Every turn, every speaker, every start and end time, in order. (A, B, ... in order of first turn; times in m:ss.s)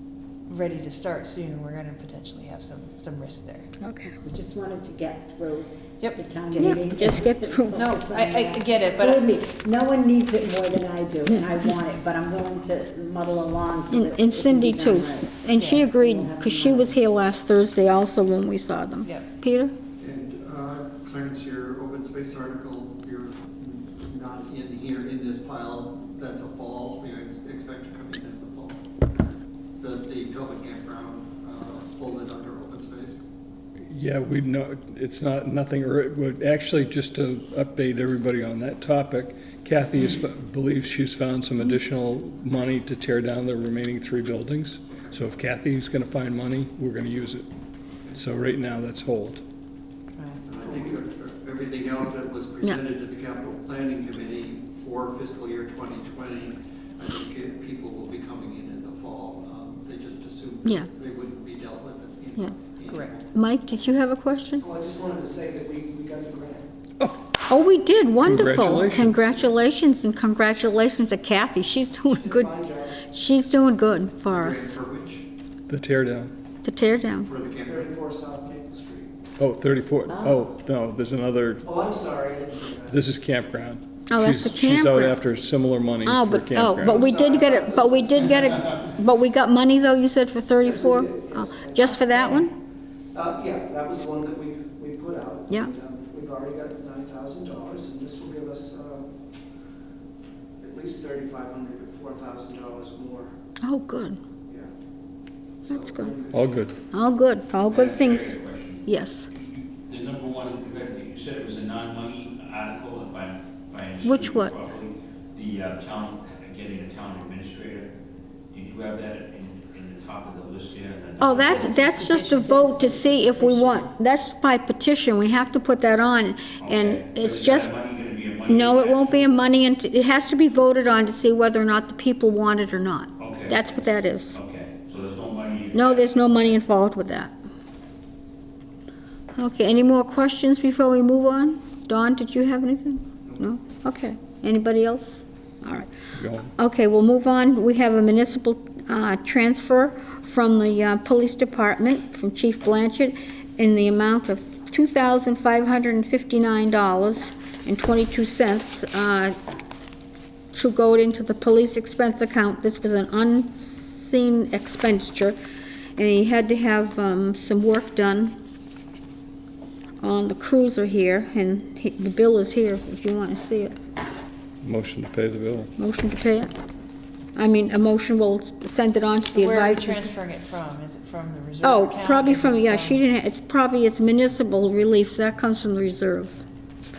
0:00.5-0:03.7 A
0:03.8-0:04.2 B
0:04.2-0:17.0 C
0:06.0-0:06.8 A
0:06.6-0:07.8 B
0:07.7-0:09.3 A
0:13.9-0:19.7 B
0:15.6-0:15.8 A
0:20.0-0:28.8 D
0:29.8-0:33.2 D
0:33.9-0:47.5 E
0:44.9-0:45.2 D
0:48.1-0:49.4 E
0:50.2-0:50.4 A
0:50.4-1:03.3 D
0:50.6-0:51.0 F
1:00.6-1:00.9 B
1:02.9-1:03.1 A
1:03.3-1:04.6 B
1:04.6-1:06.7 F
1:07.5-1:14.8 B
1:08.2-1:09.3 E
1:12.2-1:13.0 F
1:14.2-1:15.2 D
1:15.7-1:16.3 E
1:16.6-1:17.3 B
1:17.1-1:17.9 D
1:17.6-1:19.1 F
1:19.4-1:21.6 E
1:20.1-1:20.4 C
1:21.6-1:23.0 F
1:22.9-1:27.0 E
1:24.1-1:25.2 B
1:26.0-1:32.5 B
1:26.9-1:28.7 F
1:30.6-1:31.9 F
1:31.8-1:32.5 A
1:33.1-1:39.1 F
1:40.6-1:43.3 F
1:43.6-1:44.2 B
1:45.6-1:46.7 F
1:45.7-1:46.1 B
1:46.3-1:46.7 E
1:46.9-1:48.3 B
1:47.6-1:57.9 G
1:48.8-1:49.3 B
1:54.0-1:54.5 B
1:58.5-2:01.8 G
2:01.2-2:07.7 B
2:01.2-2:03.9 A
2:06.6-2:09.3 G
2:08.5-2:14.4 B
2:13.2-2:16.6 G
2:15.7-2:17.3 B
2:19.4-2:25.9 B
2:26.1-2:26.5 E
2:26.6-2:39.3 B
2:40.5-2:45.4 B
2:46.0-2:48.3 B
2:50.0-2:53.7 B
2:54.6-2:55.7 E
2:55.8-2:56.5 B
2:57.4-3:00.0 B
2:59.3-3:03.0 A
3:01.6-3:06.4 B